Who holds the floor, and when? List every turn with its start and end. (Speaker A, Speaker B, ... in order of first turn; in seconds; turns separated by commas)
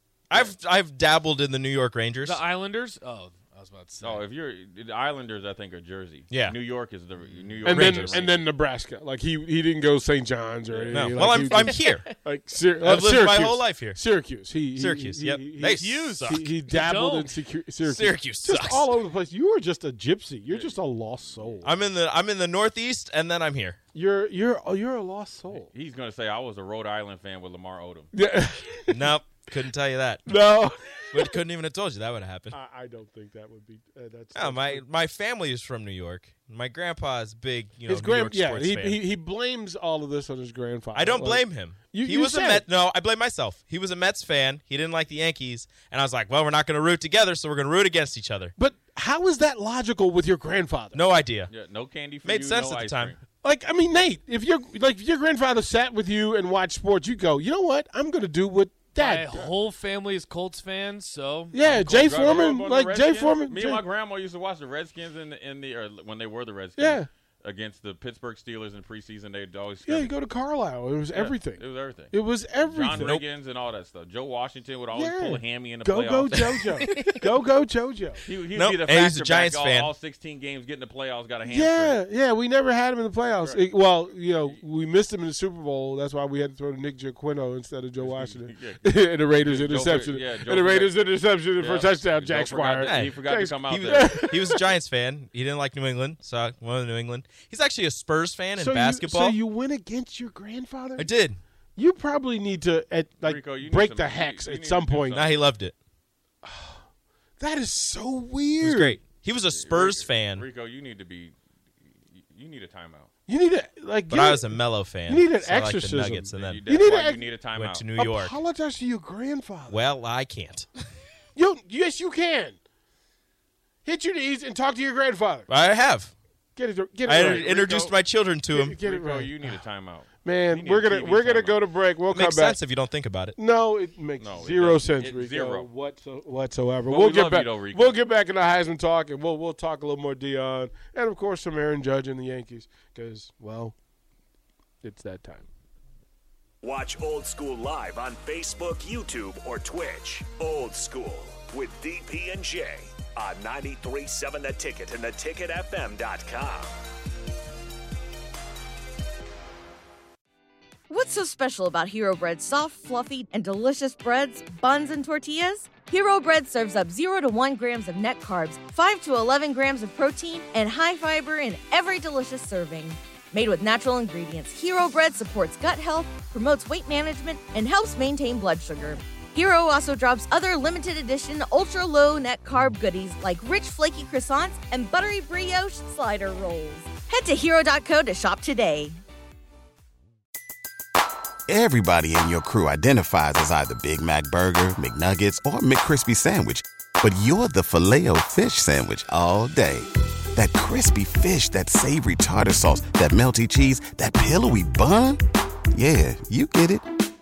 Speaker A: 0.3-2.4, Speaker B: 2.2-4.2, Speaker C: 4.0-8.4, Speaker A: 6.3-6.6, Speaker A: 7.6-8.2, Speaker D: 7.6-21.7, Speaker C: 10.7-11.3, Speaker A: 10.9-12.1, Speaker B: 11.7-12.0, Speaker A: 12.8-14.0, Speaker A: 14.7-16.5, Speaker B: 15.6-17.4, Speaker A: 17.8-18.9, Speaker C: 20.5-20.8, Speaker A: 21.6-23.8, Speaker D: 23.9-25.7, Speaker C: 25.5-28.1, Speaker D: 28.1-29.1, Speaker A: 28.9-30.4, Speaker D: 30.3-31.3, Speaker A: 31.1-32.6, Speaker D: 32.5-34.8, Speaker A: 34.3-39.0, Speaker D: 37.9-42.6, Speaker A: 40.9-48.5, Speaker D: 48.5-51.1, Speaker A: 50.9-51.5, Speaker C: 51.5-53.2, Speaker A: 52.2-53.1, Speaker D: 53.4-59.4, Speaker B: 58.9-62.4, Speaker D: 61.5-63.8, Speaker C: 61.9-70.1, Speaker D: 66.8-67.1, Speaker D: 69.8-73.2, Speaker C: 71.1-76.8, Speaker A: 73.0-73.2, Speaker D: 74.9-78.2, Speaker B: 76.8-77.2, Speaker C: 78.2-82.0, Speaker A: 78.5-79.9, Speaker D: 81.4-94.7, Speaker C: 88.0-88.8, Speaker C: 89.4-94.2, Speaker A: 92.8-99.4, Speaker D: 98.6-101.1, Speaker A: 101.0-101.4, Speaker D: 101.8-105.2, Speaker C: 103.2-105.3, Speaker A: 105.1-105.7, Speaker D: 106.4-106.8, Speaker D: 107.4-109.0, Speaker A: 108.6-110.5, Speaker C: 109.5-111.3, Speaker C: 112.1-113.1, Speaker D: 113.3-117.3, Speaker A: 114.1-116.6, Speaker C: 116.3-117.9, Speaker A: 117.5-118.4, Speaker D: 118.0-119.8, Speaker A: 119.7-120.7, Speaker D: 121.3-122.6, Speaker D: 123.8-125.5, Speaker A: 125.5-126.1, Speaker D: 126.5-127.7, Speaker A: 127.0-128.8, Speaker C: 127.3-127.9, Speaker D: 128.5-129.5, Speaker C: 128.8-131.6, Speaker D: 130.2-132.6, Speaker A: 132.1-133.4, Speaker D: 133.3-143.7, Speaker C: 134.2-135.7, Speaker C: 136.9-138.0, Speaker D: 144.8-145.4, Speaker E: 146.6-156.7, Speaker F: 160.9-189.0, Speaker G: 191.5-205.2, Speaker G: 205.7-206.8